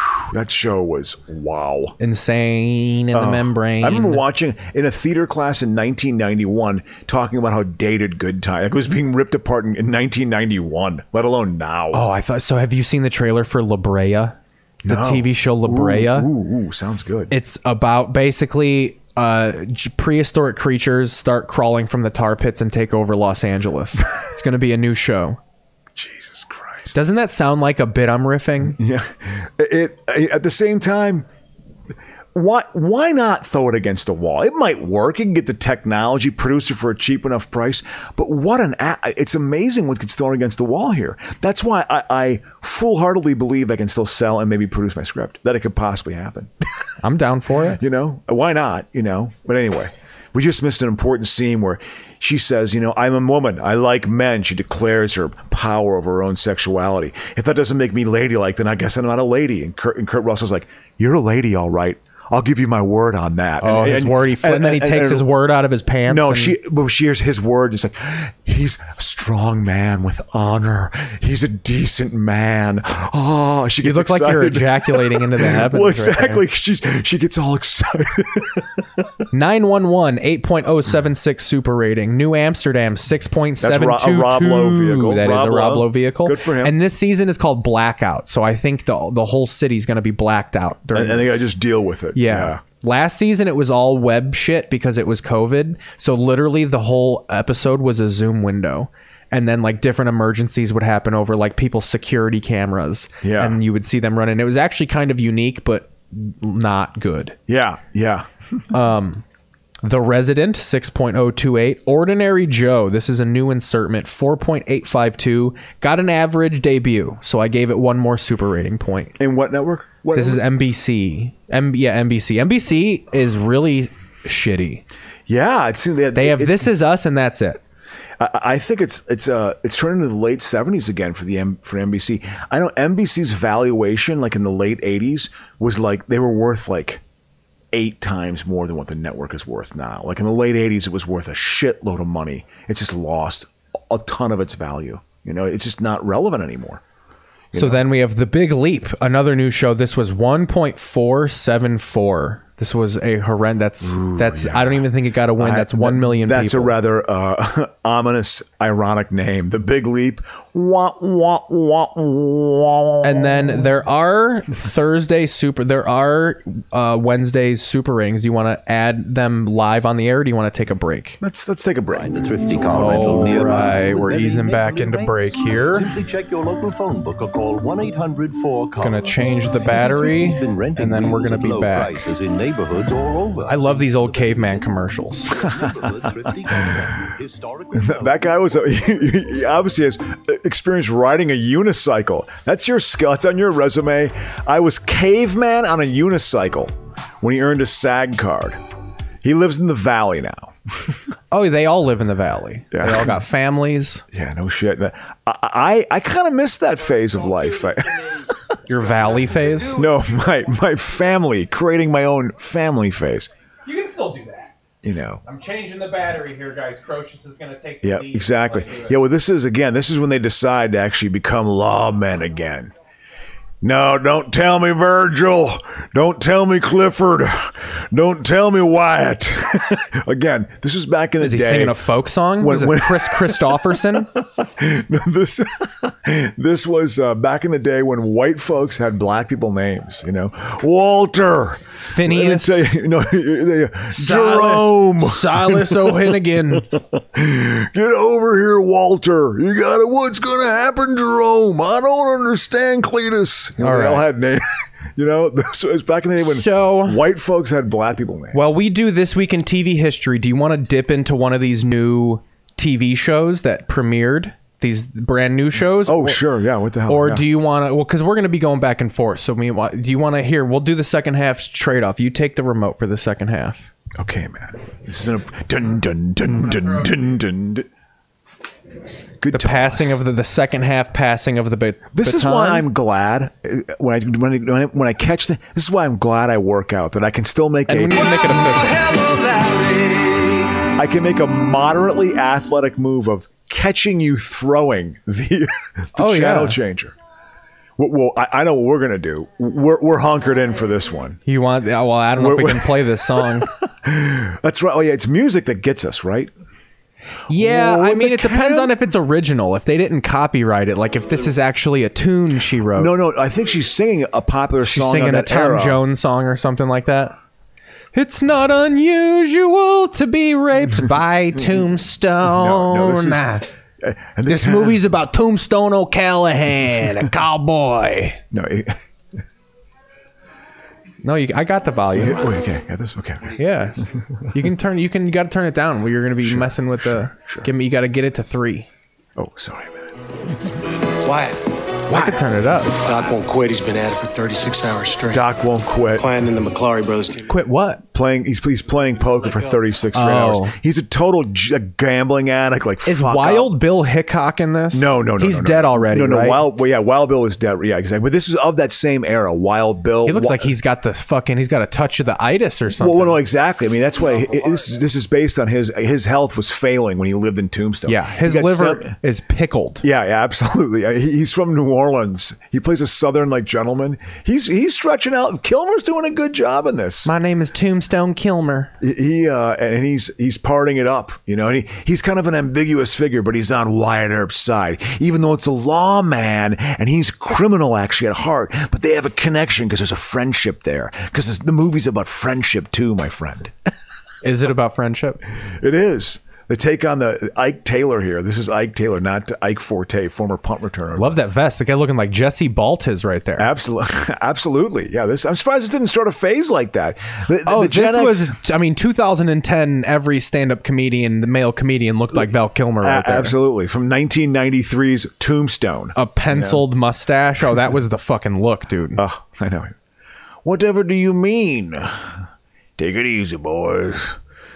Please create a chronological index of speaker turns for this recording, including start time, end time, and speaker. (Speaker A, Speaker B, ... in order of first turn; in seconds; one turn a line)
Speaker A: 0.3-1.9
Speaker B: 2.0-4.2
Speaker A: 3.1-12.1
Speaker B: 11.9-16.3
Speaker A: 14.8-17.3
Speaker B: 17.3-25.4
Speaker A: 25.9-26.9
Speaker B: 26.9-28.8
Speaker A: 28.6-31.2
Speaker A: 32.3-46.5
Speaker B: 47.0-47.8
Speaker A: 47.8-65.3
Speaker B: 63.6-66.6
Speaker A: 66.0-79.1
Speaker B: 73.8-76.4
Speaker B: 79.3-91.5
Speaker A: 83.6-86.7
Speaker A: 90.9-92.6
Speaker B: 92.1-107.3
Speaker A: 103.2-103.6
Speaker A: 107.5-108.3
Speaker B: 108.7-109.2
Speaker B: 109.8-119.1
Speaker A: 119.2-120.4
Speaker B: 120.1-124.8
Speaker A: 125.3-126.7
Speaker B: 126.1-127.6
Speaker A: 128.2-137.0
Speaker A: 137.7-146.8
Speaker A: 147.5-147.8
Speaker B: 147.5-156.8
Speaker A: 153.8-163.6
Speaker B: 163.0-171.2
Speaker A: 171.2-173.4
Speaker C: 171.9-189.1
Speaker B: 172.7-175.9
Speaker B: 178.8-182.1
Speaker B: 183.4-185.3
Speaker A: 186.5-187.0
Speaker A: 187.7-198.6
Speaker A: 199.2-201.0
Speaker B: 201.3-204.0
Speaker A: 202.7-203.2
Speaker A: 204.1-208.4
Speaker B: 207.2-207.7
Speaker B: 208.7-209.9
Speaker A: 209.7-213.3
Speaker B: 213.7-214.5
Speaker A: 214.8-215.2
Speaker B: 215.2-219.0
Speaker A: 217.8-222.7
Speaker A: 223.6-231.8
Speaker B: 231.2-234.1
Speaker A: 232.4-254.4
Speaker B: 241.9-242.7
Speaker B: 243.9-246.7
Speaker B: 253.6-254.1
Speaker A: 254.9-258.5
Speaker B: 256.2-257.0
Speaker B: 258.3-266.2
Speaker A: 265.8-267.2
Speaker B: 266.9-273.7
Speaker A: 273.9-277.7
Speaker A: 279.2-280.0
Speaker B: 279.3-282.7
Speaker A: 281.9-288.3
Speaker B: 287.7-289.2
Speaker A: 290.7-296.9
Speaker B: 296.0-296.6
Speaker A: 297.8-301.2
Speaker B: 301.2-303.5
Speaker A: 302.1-306.3
Speaker B: 307.3-312.9
Speaker A: 307.3-308.7
Speaker A: 312.7-315.8
Speaker B: 314.6-317.1
Speaker B: 317.9-323.5
Speaker A: 322.2-324.8
Speaker B: 324.3-328.2
Speaker A: 328.3-328.8
Speaker B: 331.0-332.3
Speaker A: 331.9-334.2
Speaker B: 333.4-338.7
Speaker A: 336.2-337.5
Speaker A: 339.1-340.6
Speaker D: 341.0-341.4
Speaker B: 341.9-342.8
Speaker D: 342.8-345.2
Speaker A: 345.1-346.1
Speaker D: 345.9-347.3
Speaker B: 347.3-347.8
Speaker A: 347.9-353.5
Speaker B: 349.9-350.5
Speaker B: 352.9-356.4
Speaker A: 354.7-360.5
Speaker B: 360.0-363.2
Speaker A: 362.8-368.9
Speaker B: 367.9-369.8
Speaker A: 369.8-377.1
Speaker B: 377.0-378.7
Speaker A: 378.8-393.5
Speaker B: 394.2-395.2
Speaker A: 395.4-401.2
Speaker B: 400.9-403.5
Speaker A: 403.4-408.3
Speaker B: 407.4-413.4
Speaker A: 412.8-416.6
Speaker B: 415.9-419.0
Speaker A: 418.9-419.7
Speaker A: 420.4-422.2
Speaker A: 422.8-424.2